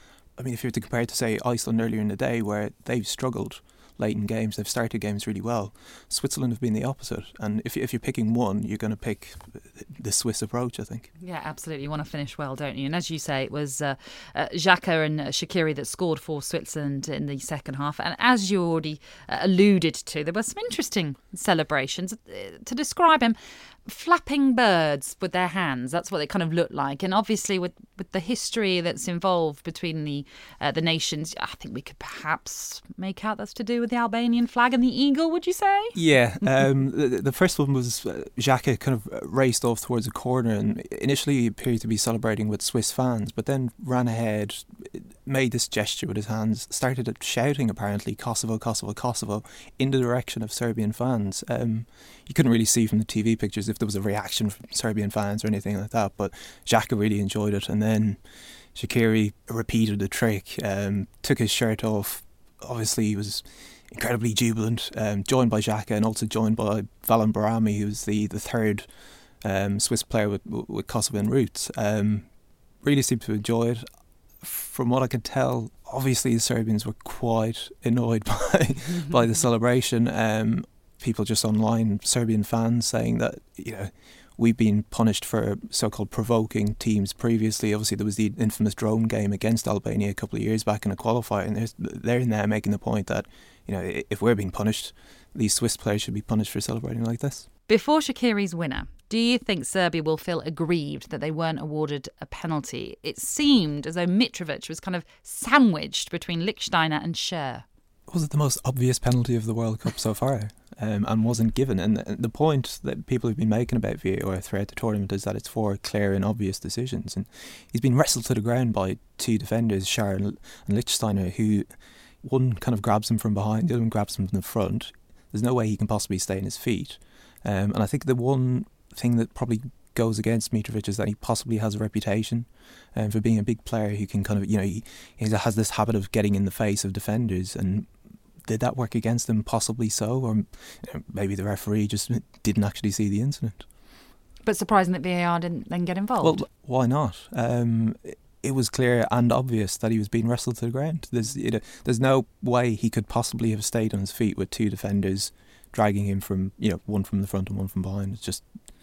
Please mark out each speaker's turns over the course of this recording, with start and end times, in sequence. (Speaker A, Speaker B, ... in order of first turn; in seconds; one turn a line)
Speaker A: 0.3-11.1
Speaker B: 11.2-36.0
Speaker A: 36.0-58.2
Speaker A: 58.7-68.9
Speaker A: 69.4-72.3
Speaker A: 72.8-73.8
Speaker A: 74.4-97.5
Speaker B: 97.7-107.6
Speaker A: 108.1-121.7
Speaker A: 122.2-137.9
Speaker A: 138.4-143.7
Speaker B: 144.4-146.4
Speaker A: 146.2-158.5